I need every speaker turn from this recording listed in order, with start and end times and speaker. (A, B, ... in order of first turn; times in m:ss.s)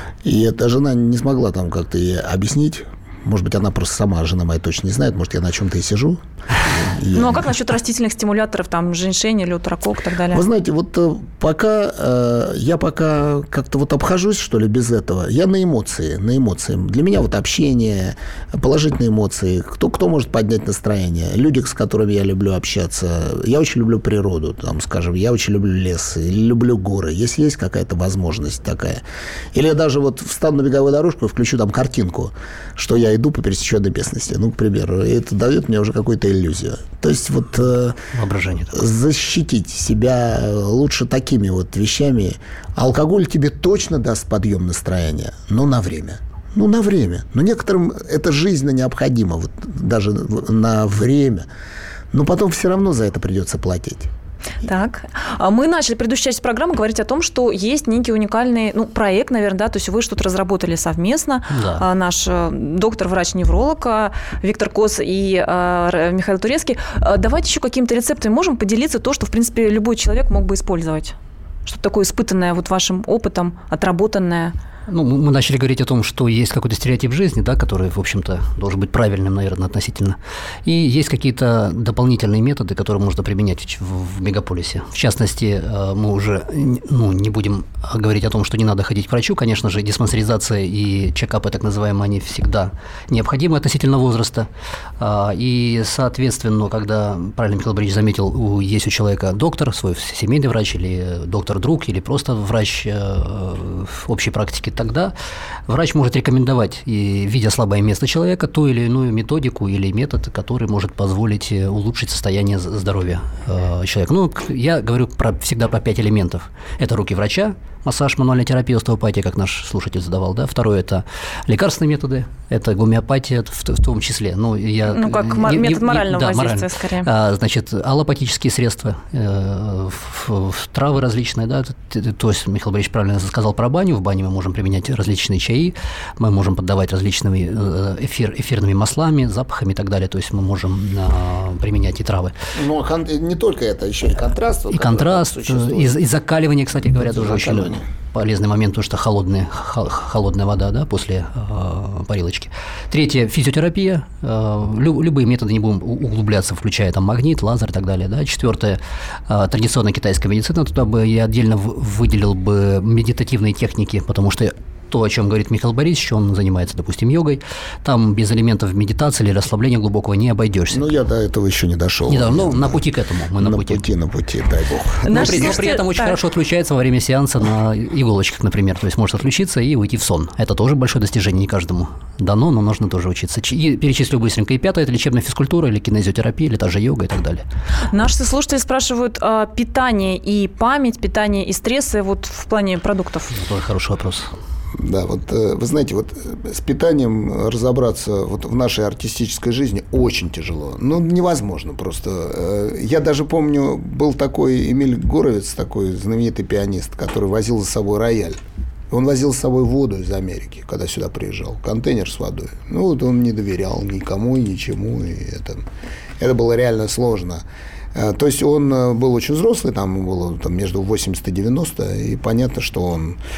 0:00.2-0:07.5 A
0:07.1-0:10.4 B
0:10.3-0:38.0 A
0:38.1-0:38.8 C
0:38.7-0:51.5 A
0:52.1-0:54.1 A
0:54.6-1:14.5 B
1:01.5-1:01.8 C
1:14.9-1:34.5 C
1:35.0-1:45.1 C
1:45.7-2:22.3 C
2:04.9-2:07.1 B
2:22.6-2:26.0 A
2:24.7-2:51.0 C
2:27.0-2:27.8 A
2:50.7-2:52.8 A
2:52.1-2:53.8 C
2:53.4-2:55.6 A
2:55.1-2:56.2 B
2:55.1-3:07.4 C
3:07.9-3:13.3 B
3:13.3-3:14.3 C
3:14.8-3:28.4 A
3:28.9-3:35.7 A
3:36.2-3:37.4 A
3:38.0-3:43.2 A